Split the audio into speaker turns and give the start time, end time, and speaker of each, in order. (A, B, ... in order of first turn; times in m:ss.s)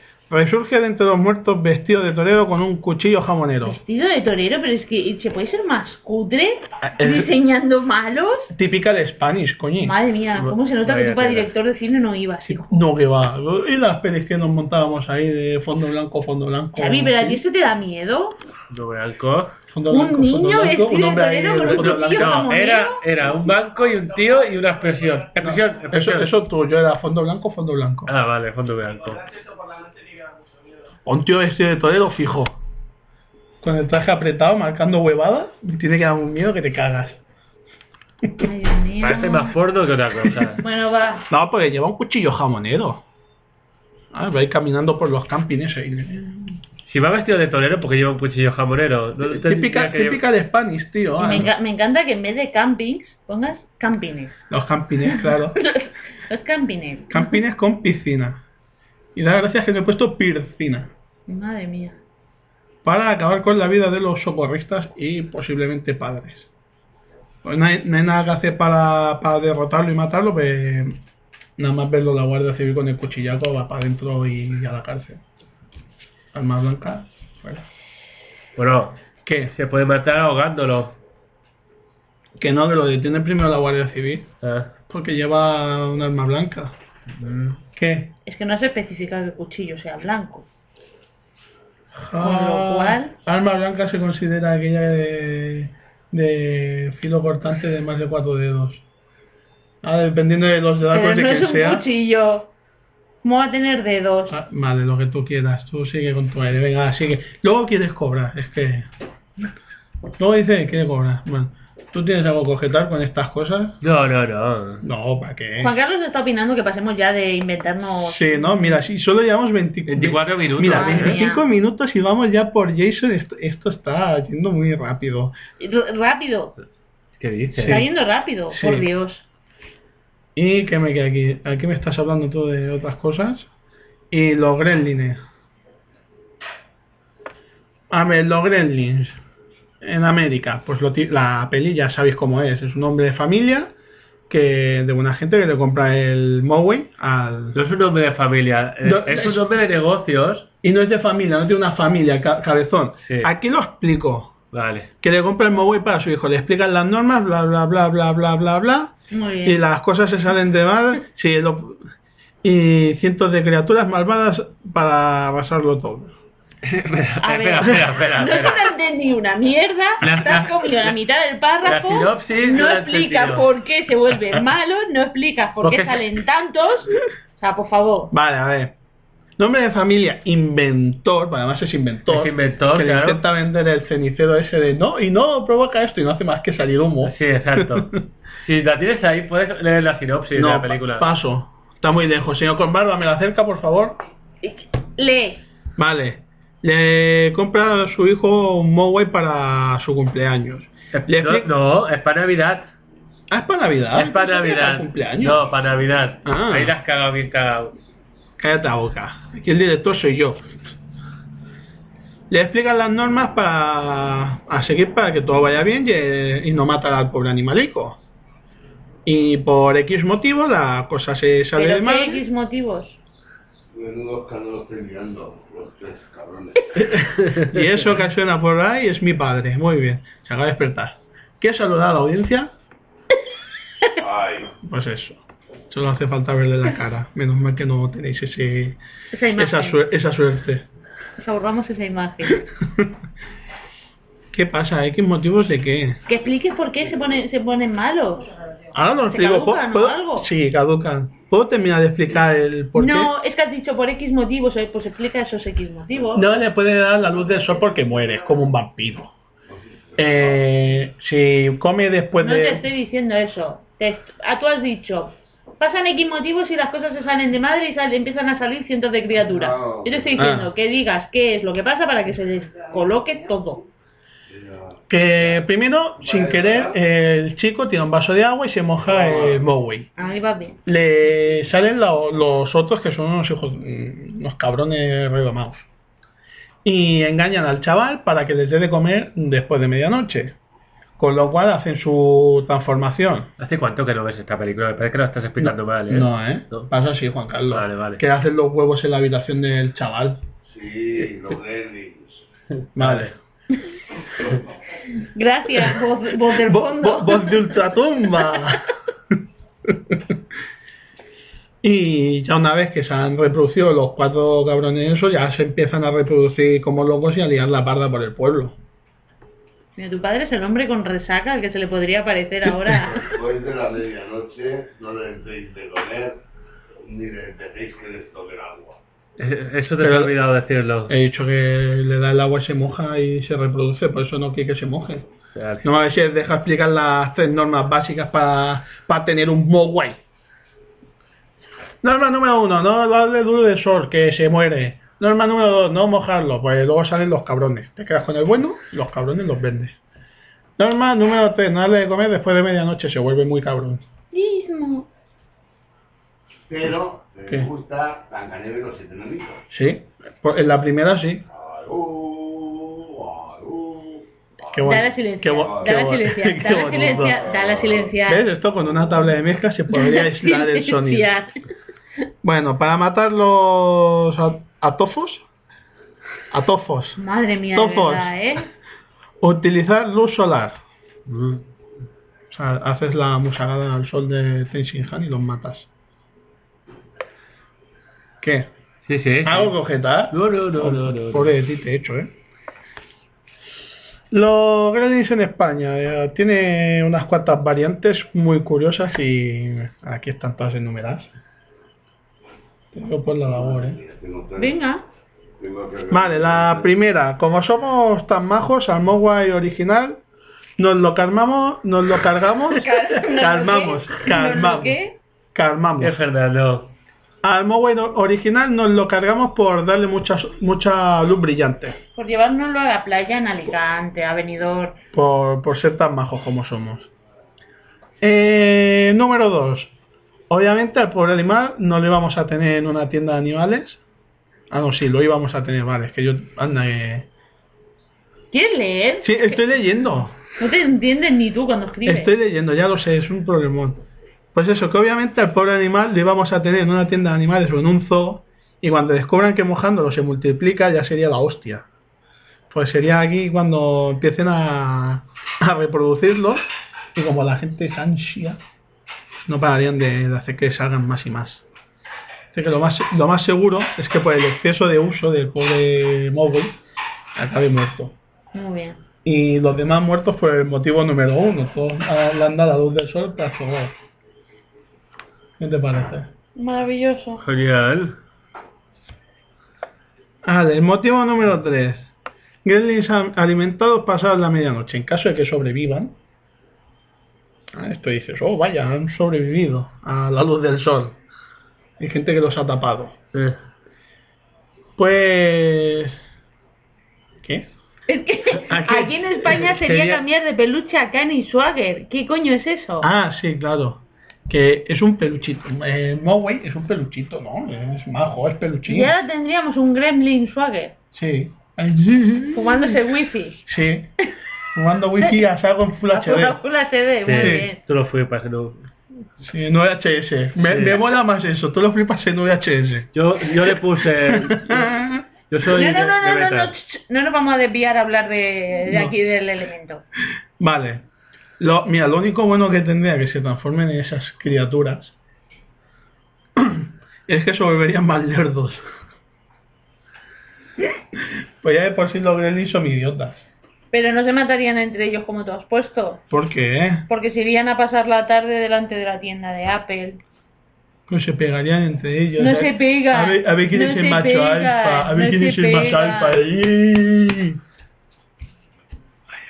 0:00.3-0:03.8 A
0:03.6-0:08.5 B
0:06.8-0:07.3 A
0:08.5-0:10.0 A
0:09.8-0:12.7 B
0:10.4-0:11.5 C
0:12.5-0:17.4 A
0:16.8-0:18.4 B
0:18.7-0:19.6 C
0:19.7-0:22.4 A
0:19.9-0:23.0 B
0:21.7-0:26.3 C
0:25.4-0:28.1 A
0:28.1-0:29.4 C
0:31.0-0:32.5 A
0:33.6-0:37.2 A
0:38.4-0:39.5 B
0:39.0-0:40.6 C
0:40.6-0:41.3 B
0:41.3-0:43.0 A
0:44.1-0:46.6 A
0:46.9-0:50.2 C
0:49.2-0:51.5 A
0:51.2-0:54.3 B
0:54.5-0:55.6 A
0:55.1-0:57.3 B
0:57.1-0:58.4 A
0:59.2-1:00.9 A
1:01.3-1:02.0 B
1:02.8-1:06.5 A
1:07.4-1:11.0 A
1:11.6-1:15.2 A
1:16.3-1:17.6 A
1:18.6-1:19.0 C
1:19.2-1:19.5 A
1:19.5-1:21.0 C
1:22.4-1:24.3 A
1:24.4-1:24.7 C
1:24.9-1:26.7 A
1:27.1-1:27.6 C
1:27.8-1:28.1 A
1:28.3-1:30.5 B
1:31.9-1:38.8 A
1:32.2-1:33.1 B
1:39.8-1:41.8 A
1:40.9-1:42.5 B
1:43.2-1:44.4 B
1:44.3-1:48.9 A
1:50.2-1:53.8 A
1:53.8-1:54.8 C
1:54.8-1:55.7 A
1:55.6-1:58.8 B
1:58.1-2:05.4 A
1:59.9-2:01.2 C
2:00.7-2:01.4 B
2:05.6-2:06.6 B
2:07.2-2:07.8 C
2:07.6-2:07.9 A
2:07.7-2:09.2 B
2:08.5-2:08.9 A
2:10.4-2:13.5 A
2:14.1-2:15.2 A
2:17.9-2:19.2 A
2:19.8-2:23.7 A
2:24.3-2:27.6 A
2:27.6-2:30.5 C
2:28.8-2:29.5 A
2:30.6-2:34.3 A
2:34.5-2:34.9 C
2:35.0-2:38.9 A
2:39.1-2:39.6 B
2:39.4-2:41.8 A
2:42.4-2:46.1 A
2:46.6-2:48.7 C
2:47.2-2:58.1 B
2:50.0-2:50.9 C
2:51.6-2:53.5 C
2:55.6-2:56.1 C
2:58.1-2:58.7 A
2:59.4-3:08.0 A
3:02.1-3:03.2 C
3:07.0-3:11.1 C
3:10.4-3:14.0 A
3:14.4-3:15.4 B
3:15.8-3:21.5 A
3:20.9-3:22.7 C
3:23.3-3:25.4 A
3:23.9-3:27.7 C
3:26.2-3:26.8 A
3:28.4-3:30.5 A
3:32.3-3:38.0 A
3:39.1-3:42.2 A
3:41.6-3:43.0 B
3:43.7-3:47.0 D
3:46.8-3:52.5 A
3:54.0-3:54.5 D
3:54.6-3:58.8 A
3:59.1-3:59.8 B
3:59.4-4:00.7 A
4:01.2-4:02.4 B
4:04.3-4:06.0 A
4:06.1-4:08.3 B
4:08.7-4:13.1 A
4:09.1-4:10.3 B
4:12.8-4:16.3 B
4:16.2-4:19.1 A
4:19.5-4:20.3 D
4:20.0-4:22.6 A
4:22.2-4:33.6 B
4:29.2-4:30.2 D
4:30.2-4:30.5 A
4:34.3-4:34.8 D
4:34.9-4:39.9 A
4:36.0-4:36.8 D
4:38.9-4:39.4 D
4:40.0-4:40.6 B
4:40.7-4:45.6 A
4:46.6-4:50.4 A
4:51.0-4:53.3 A
4:53.4-4:56.7 C
4:55.4-5:00.2 A
4:57.5-4:58.0 C
5:00.4-5:02.2 D
5:02.8-5:03.2 C
5:02.8-5:03.1 A
5:04.9-5:07.5 B
5:06.3-5:08.7 A
5:09.7-5:10.1 A
5:11.6-5:18.6 A
5:19.8-5:23.1 B
5:22.9-5:26.2 D
5:26.8-5:28.8 D
5:29.2-5:30.9 C
5:29.8-5:30.1 A
5:30.9-5:35.1 A
5:35.4-5:35.6 C
5:35.6-5:40.0 A
5:41.8-5:49.8 A
5:50.6-5:53.8 A
5:54.1-5:54.9 B
5:56.5-5:59.4 D
5:59.5-6:01.2 A
6:01.3-6:04.9 D
6:04.5-6:07.2 A
6:04.6-6:08.2 B
6:05.4-6:05.9 D
6:06.5-6:08.0 D
6:08.1-6:11.1 A
6:09.7-6:11.3 B
6:12.2-6:15.2 A
6:16.3-6:17.0 A
6:17.0-6:18.5 B
6:17.5-6:18.1 A
6:19.2-6:20.6 A
6:21.1-6:21.4 C
6:22.3-6:25.7 A
6:28.2-6:28.5 A
6:28.9-6:29.5 C
6:29.2-6:32.1 A
6:30.1-6:31.3 C
6:34.1-6:41.1 A
6:42.7-6:43.8 A
6:43.3-6:44.6 D
6:44.4-6:44.8 B
6:45.4-6:46.7 D
6:45.9-6:50.0 A
6:50.6-6:54.8 A
6:52.5-6:55.0 B
6:55.3-6:56.0 A
6:55.8-6:56.7 C
6:57.2-7:01.8 A
7:02.0-7:04.8 B
7:04.9-7:06.9 A
7:08.0-7:09.7 A
7:10.3-7:13.8 A
7:14.5-7:17.1 A
7:18.3-7:19.4 B
7:19.0-7:20.1 A
7:20.4-7:22.1 B
7:21.8-7:23.8 A
7:24.3-7:31.6 A
7:32.5-7:38.4 A
7:39.2-7:41.4 A
7:42.3-7:46.6 A
7:47.2-7:48.0 A
7:48.3-7:48.8 B
7:49.0-7:53.8 A
7:55.4-7:56.1 A
7:56.4-7:57.2 B
7:57.2-7:58.0 C
8:00.2-8:01.9 A
8:02.4-8:05.9 A
8:07.5-8:11.0 A
8:11.8-8:13.0 A
8:14.8-8:16.0 A
8:17.2-8:17.5 A
8:17.9-8:22.9 B
8:18.5-8:18.9 A
8:19.3-8:20.0 C
8:22.8-8:28.9 A
8:28.7-8:30.7 B
8:30.9-8:32.7 A
8:32.3-8:33.4 B
8:33.5-8:33.9 A
8:34.5-8:36.4 A
8:35.9-8:37.6 B
8:37.1-8:38.7 C
8:37.2-8:37.5 A
8:39.2-8:42.9 A
8:40.5-8:40.8 C
8:42.9-8:46.5 C
8:44.1-8:45.0 A
8:45.5-8:49.8 B
8:48.7-8:48.9 A
8:50.4-8:50.8 A
8:51.4-8:54.9 A
8:56.4-8:58.6 A
9:00.6-9:03.2 A
9:03.7-9:06.0 B
9:06.1-9:06.9 A
9:06.9-9:10.0 B
9:10.9-9:17.4 A
9:12.2-9:16.2 B